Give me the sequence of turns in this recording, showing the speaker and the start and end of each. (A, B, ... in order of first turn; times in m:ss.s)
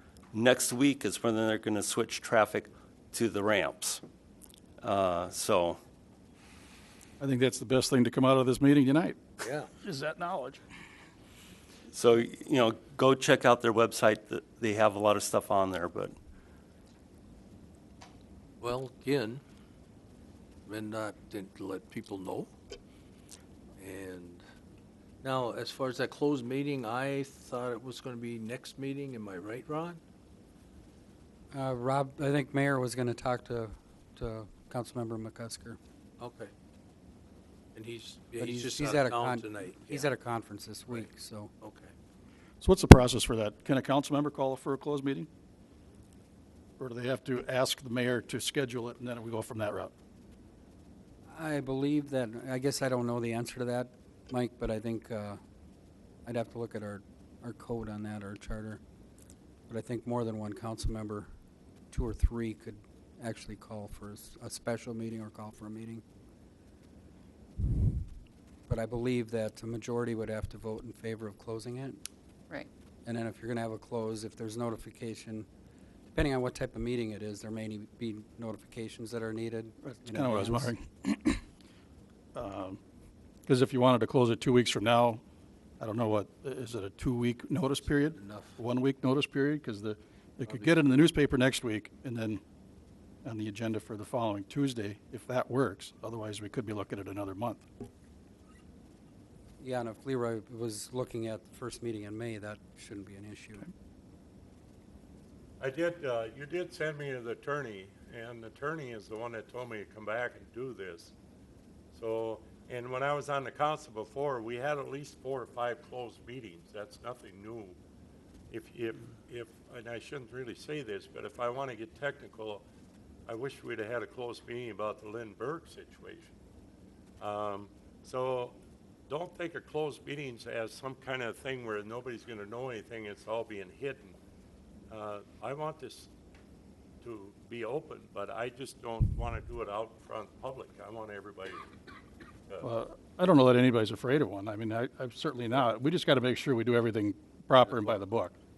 0:00.3-0:04.0 A
0:04.8-0:05.8 A
0:07.2-0:10.6 B
0:09.4-0:09.7 C
0:11.9-0:16.1 A
0:18.6-0:19.4 C
0:20.7-0:22.5 C
0:23.8-0:24.4 C
0:25.2-0:30.0 C
0:31.5-0:35.8 D
0:36.2-0:36.5 C
0:37.7-0:40.1 C
0:38.4-0:41.5 D
0:41.6-0:41.9 C
0:42.6-0:45.3 B
0:46.8-0:49.9 B
0:51.3-0:55.4 D
0:56.2-0:58.8 D
0:59.7-1:01.3 D
1:01.9-1:06.0 D
1:08.7-1:12.0 D
1:13.0-1:15.5 D
1:16.1-1:20.7 D
1:19.8-1:21.4 B
1:22.4-1:22.8 B
1:23.5-1:25.2 B
1:25.8-1:32.4 B
1:28.1-1:28.6 C
1:30.5-1:30.9 C
1:33.2-1:37.7 B
1:39.6-1:43.7 D
1:45.6-1:51.1 E
1:51.9-1:57.8 E
1:58.5-2:02.6 E
2:03.3-2:06.3 E
2:07.2-2:08.6 E
2:09.1-2:14.2 E
2:14.9-2:16.1 E
2:17.0-2:21.6 E
2:22.6-2:28.4 B